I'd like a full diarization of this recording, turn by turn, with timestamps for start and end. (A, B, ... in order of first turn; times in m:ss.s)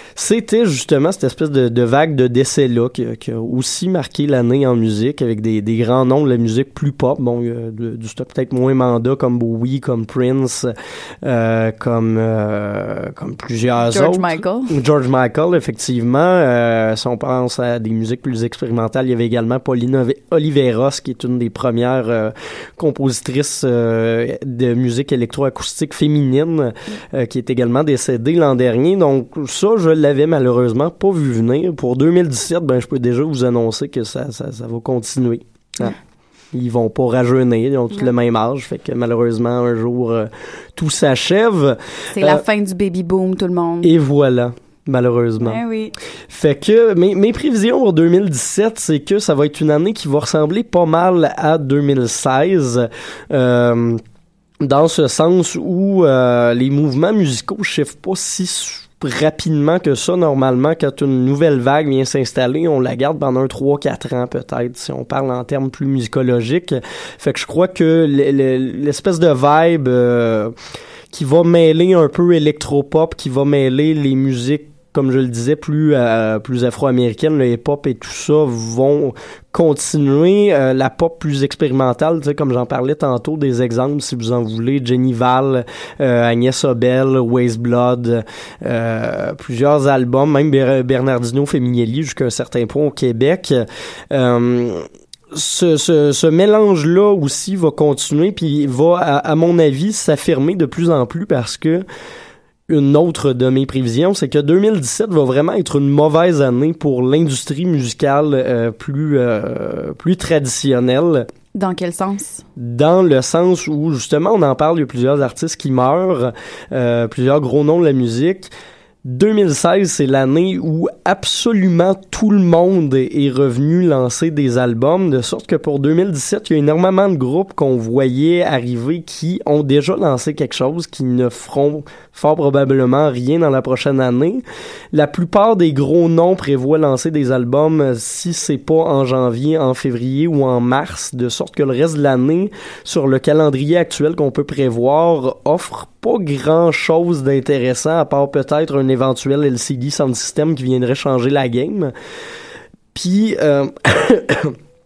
0:00.2-0:10.7 A
0:11.2-0:36.0 A
0:13.8-0:14.7 B
0:36.5-0:42.4 A
0:42.1-0:43.9 B
0:43.8-0:45.6 A
0:45.4-0:45.9 B
0:46.3-0:54.0 A
0:54.6-1:10.5 A
1:11.1-1:41.8 A
1:42.7-1:51.3 A
1:51.5-1:52.4 B
1:52.6-1:58.5 A
1:59.0-2:31.9 A
2:32.9-2:34.6 A